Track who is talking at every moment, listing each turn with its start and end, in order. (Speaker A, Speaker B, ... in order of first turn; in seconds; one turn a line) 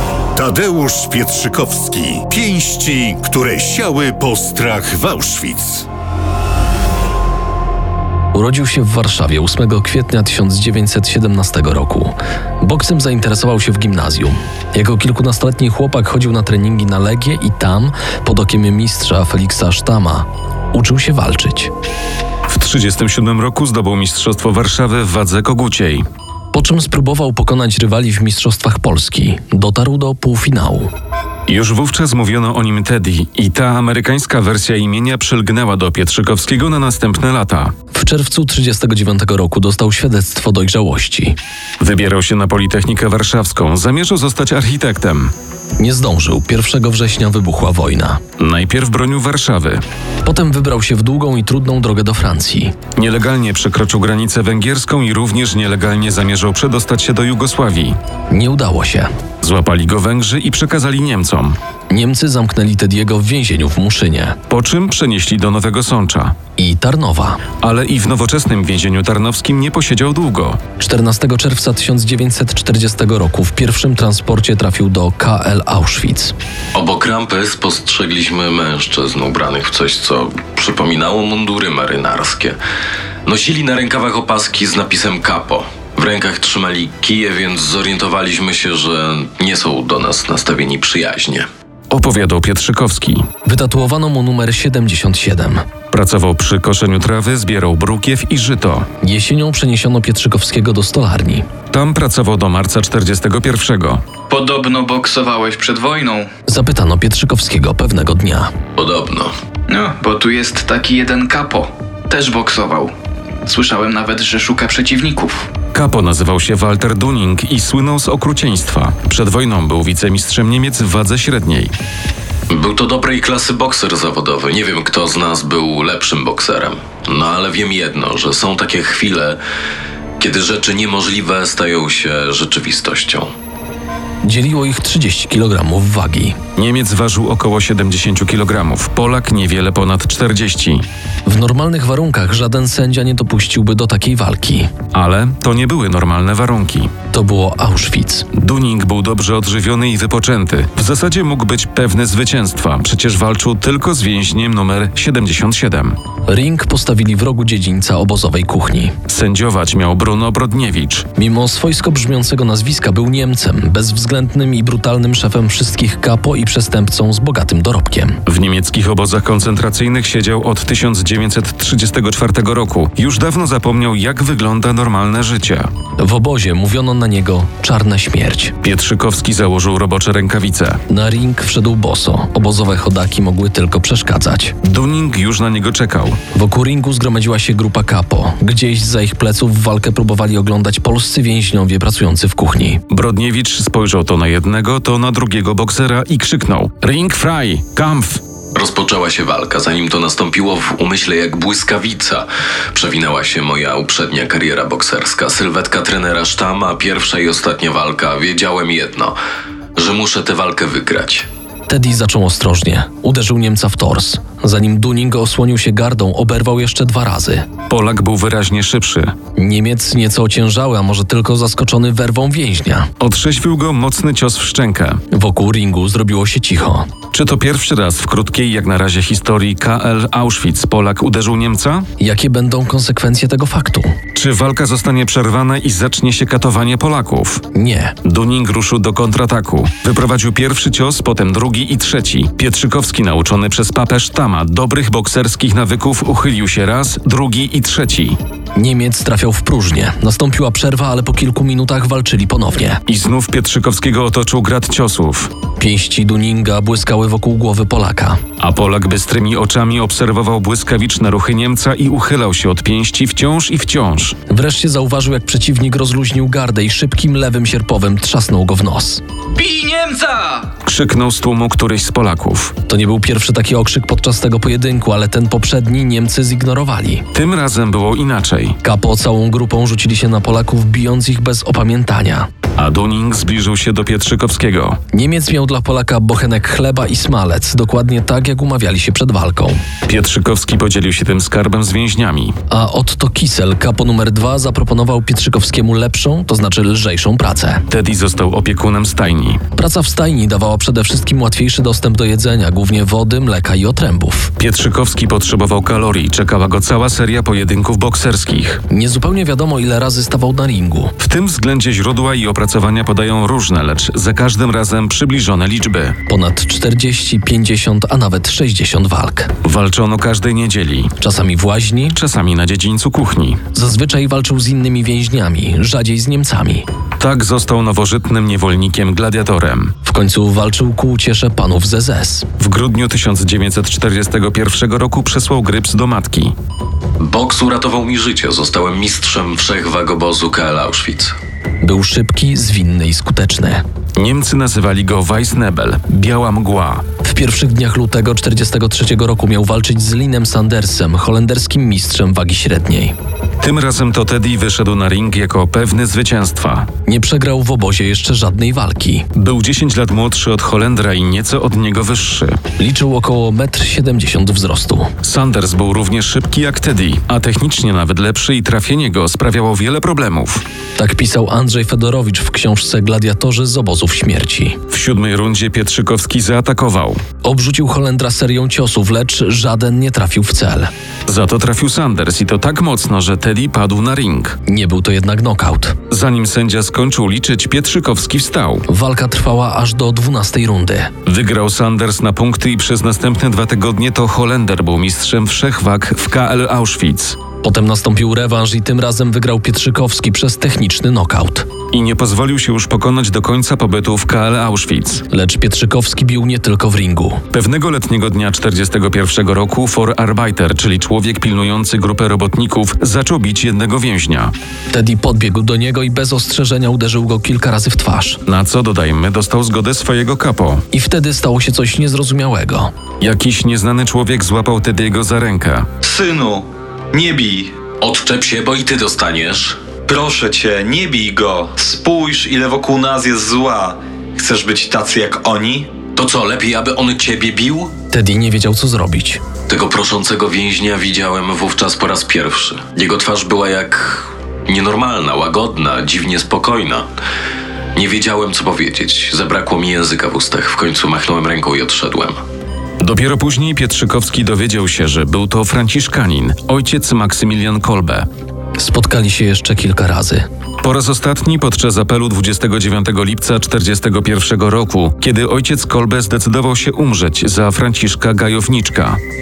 Speaker A: 0.3-5.9
Speaker B: 8.3-21.7
Speaker C: 22.5-26.0
Speaker B: 26.5-30.9
Speaker C: 31.5-37.7
Speaker B: 37.9-41.4
Speaker C: 41.8-45.3
Speaker B: 45.8-48.2
Speaker C: 48.4-49.8
Speaker B: 50.2-52.8
Speaker C: 53.0-58.0
Speaker B: 58.3-59.1
Speaker C: 59.4-61.6
Speaker B: 61.9-64.4
Speaker C: 64.5-66.3
Speaker B: 66.6-67.5
Speaker C: 67.6-70.6
Speaker B: 70.8-76.3
Speaker D: 76.7-82.6
Speaker D: 83.2-91.5
Speaker C: 91.9-93.2
Speaker B: 93.4-95.6
Speaker C: 95.9-98.9
Speaker B: 99.0-101.5
Speaker C: 101.7-104.0
Speaker E: 104.3-106.3
Speaker B: 106.5-108.5
Speaker D: 108.8-109.3
Speaker E: 109.7-112.9
Speaker E: 113.5-115.5
Speaker C: 115.7-121.7
Speaker D: 122.5-129.4
Speaker D: 130.2-133.3
Speaker B: 134.2-136.4
Speaker C: 136.6-140.8
Speaker B: 141.2-144.7
Speaker C: 144.9-146.9
Speaker B: 147.1-148.3
Speaker C: 148.3-156.0
Speaker B: 156.3-158.9
Speaker C: 159.1-161.1
Speaker B: 161.2-168.2
Speaker C: 168.2-175.7
Speaker B: 176.0-178.5
Speaker C: 178.6-180.8
Speaker B: 180.9-184.6
Speaker C: 184.6-186.2
Speaker B: 186.3-192.8
Speaker C: 192.9-198.2
Speaker D: 198.5-209.2
Speaker D: 209.8-211.2
Speaker B: 211.7-217.5
Speaker C: 217.7-219.1
Speaker B: 219.3-222.9
Speaker C: 223.0-225.0
Speaker B: 225.1-226.9
Speaker C: 227.1-231.9
Speaker B: 232.0-234.0
Speaker C: 234.1-237.4
Speaker B: 237.5-237.9
Speaker C: 238.0-248.2
Speaker B: 248.5-252.8
Speaker C: 252.9-255.3
Speaker B: 255.6-258.2
Speaker C: 258.4-264.1
Speaker B: 264.3-269.0
Speaker E: 269.3-270.5
Speaker C: 270.6-272.5
Speaker B: 272.7-277.1
Speaker C: 277.1-278.6
Speaker B: 278.6-282.3
Speaker C: 282.6-284.8
Speaker B: 284.9-289.6
Speaker C: 289.9-292.3
Speaker B: 292.5-297.6
Speaker C: 297.7-299.4
Speaker B: 299.6-304.3
Speaker C: 304.4-308.6
Speaker B: 308.7-310.9
Speaker C: 311.0-315.9
Speaker B: 316.1-319.3
Speaker C: 319.4-320.9
Speaker B: 321.0-322.0
Speaker C: 321.9-323.4
Speaker B: 323.5-326.6
Speaker C: 327.0-329.7
Speaker B: 329.8-332.3
Speaker C: 332.4-336.3
Speaker D: 337.0-341.1
Speaker B: 341.6-343.6
Speaker C: 344.0-346.8
Speaker B: 347.0-352.9
Speaker C: 353.4-356.7
Speaker B: 356.9-359.1
Speaker C: 359.1-362.4
Speaker B: 362.6-364.9
Speaker C: 365.0-370.4
Speaker B: 370.8-374.6
Speaker C: 374.7-377.0
Speaker B: 377.2-380.7
Speaker C: 381.1-384.4
Speaker B: 384.4-385.8
Speaker C: 385.9-388.6
Speaker B: 388.7-390.9
Speaker C: 391.1-397.2
Speaker B: 397.4-401.5
Speaker C: 401.7-405.0
Speaker B: 405.1-407.2
Speaker C: 407.3-414.3
Speaker B: 414.7-418.2
Speaker C: 418.3-420.6
Speaker B: 420.7-422.7
Speaker C: 423.0-425.7
Speaker F: 425.8-427.5
Speaker D: 427.8-429.6
Speaker F: 429.9-435.8
Speaker D: 435.8-437.7
Speaker B: 437.9-439.2
Speaker D: 439.5-446.9
Speaker D: 447.7-452.2
Speaker C: 452.8-458.1
Speaker B: 458.6-460.3
Speaker C: 460.6-469.0